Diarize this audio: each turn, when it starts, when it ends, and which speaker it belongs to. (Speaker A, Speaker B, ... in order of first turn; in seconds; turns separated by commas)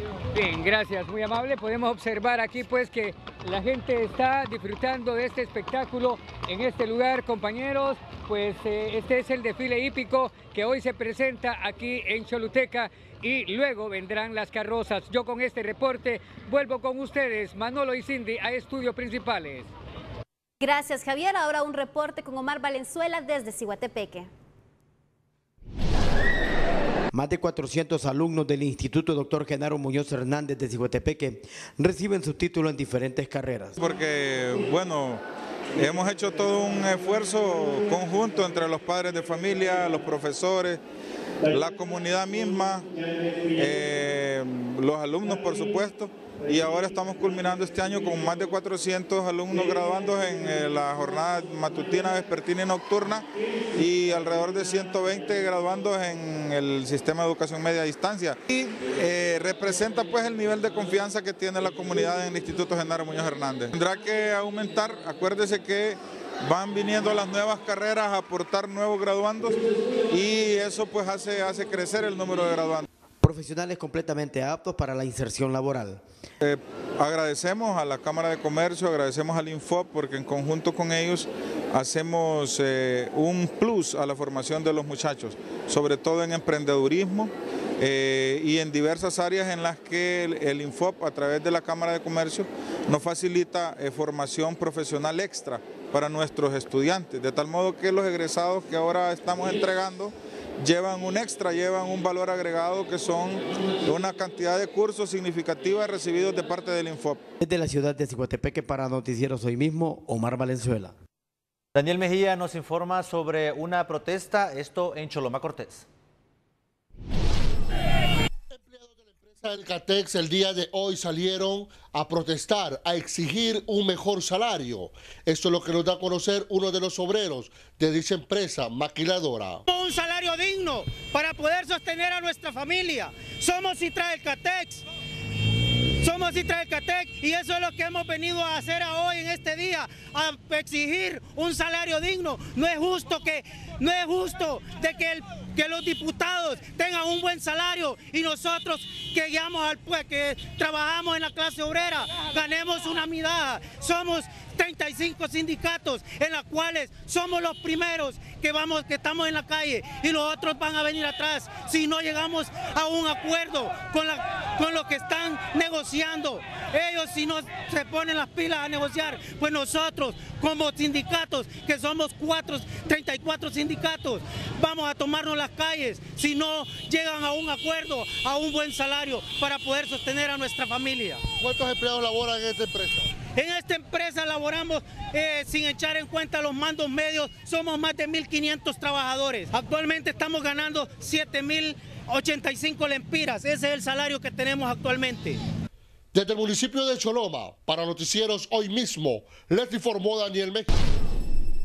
Speaker A: 0.3-19.7, Speaker B: 20.6-24.3, Speaker C: 27.1-33.7, Speaker D: 33.8-35.2, Speaker D: 35.8-40.8, Speaker D: 41.5-42.9, Speaker D: 43.5-72.8, Speaker C: 73.2-76.0, Speaker D: 76.4-107.2, Speaker C: 107.4-110.9, Speaker E: 111.7-115.8, Speaker F: 118.5-129.6, Speaker G: 129.7-134.8, Speaker G: 136.0-181.2, Speaker F: 181.4-183.1, Speaker G: 183.3-195.4, Speaker F: 196.1-200.7